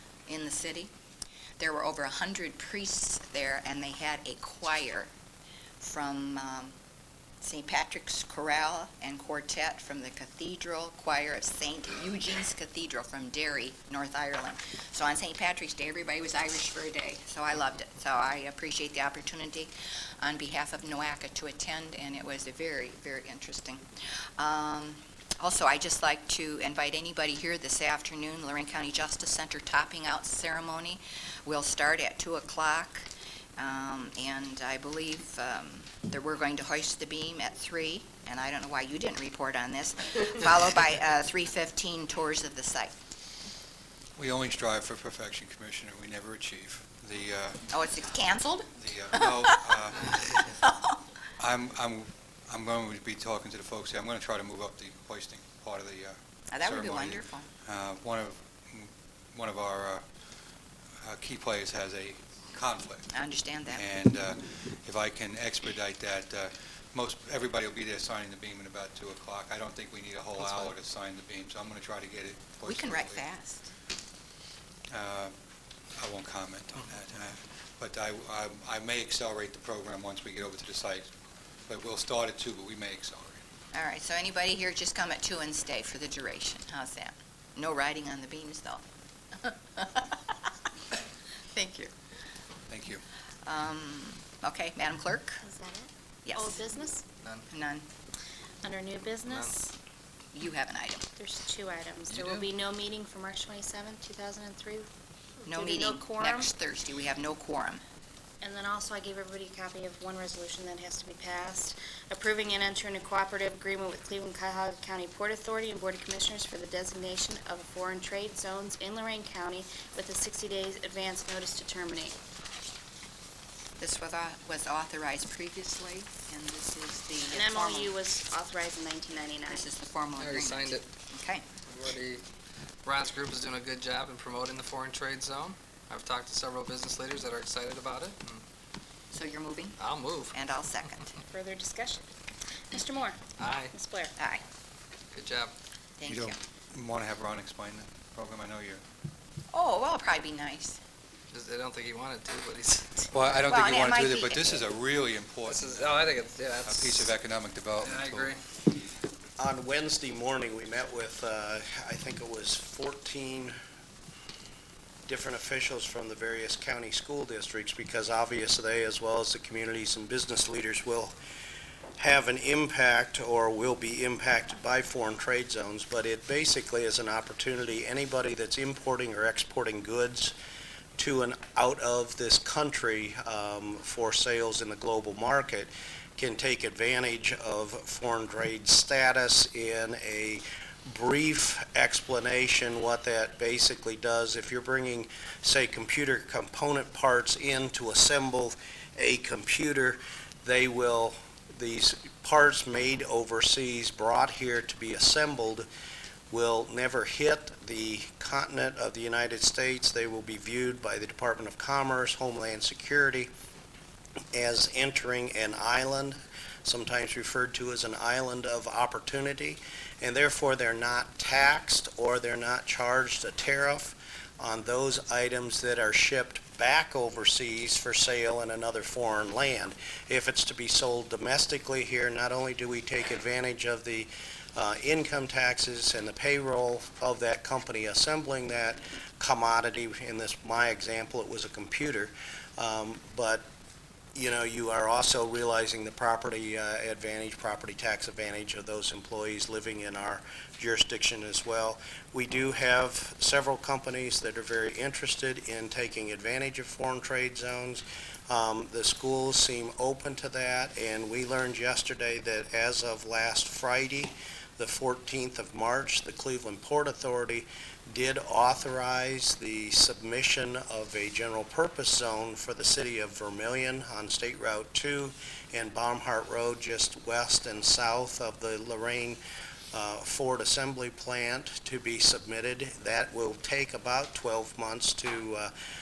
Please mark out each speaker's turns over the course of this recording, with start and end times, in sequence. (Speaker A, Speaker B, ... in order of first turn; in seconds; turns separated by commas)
Speaker A: 0.3-0.9, Speaker A: 1.6-5.1, Speaker A: 5.8-6.8, Speaker A: 7.4-23.8, Speaker A: 24.4-42.9, Speaker B: 44.2-47.7, Speaker A: 47.7-49.6, Speaker B: 48.7-50.1, Speaker A: 50.4-51.0, Speaker B: 51.4-60.0, Speaker A: 56.5-57.5, Speaker B: 61.0-63.1, Speaker A: 63.1-63.9, Speaker B: 63.7-73.2, Speaker A: 72.7-73.7, Speaker B: 74.9-75.3, Speaker B: 76.0-81.1, Speaker B: 81.7-83.4, Speaker A: 83.7-88.8, Speaker A: 89.4-90.6, Speaker A: 91.5-91.9, Speaker B: 92.7-93.0, Speaker A: 93.5-95.5, Speaker C: 95.4-97.1, Speaker A: 96.2-96.6, Speaker A: 97.5-97.9, Speaker C: 98.6-99.6, Speaker D: 99.3-99.6, Speaker A: 100.3-101.0, Speaker C: 101.2-104.9, Speaker D: 102.1-102.5, Speaker C: 105.5-106.5, Speaker A: 105.5-107.8, Speaker C: 108.4-122.2, Speaker A: 123.8-127.9, Speaker C: 127.3-129.7, Speaker A: 129.5-131.4, Speaker D: 130.2-130.8, Speaker D: 131.7-132.2, Speaker D: 132.8-138.4, Speaker A: 139.1-139.8, Speaker D: 139.8-140.3, Speaker A: 140.3-141.2, Speaker C: 141.3-142.1, Speaker C: 142.7-144.1, Speaker D: 143.4-143.8, Speaker A: 144.2-144.4, Speaker D: 145.1-145.5, Speaker A: 146.0-146.4, Speaker B: 146.1-148.8, Speaker A: 149.5-150.8, Speaker D: 151.3-153.1, Speaker B: 153.1-158.4, Speaker A: 153.5-154.6, Speaker D: 155.4-157.1, Speaker D: 157.8-158.4, Speaker E: 159.4-163.6, Speaker E: 165.1-171.1, Speaker E: 172.0-180.3, Speaker E: 181.0-205.7, Speaker E: 206.3-213.3, Speaker E: 214.3-243.4, Speaker E: 244.1-279.2, Speaker E: 279.7-285.5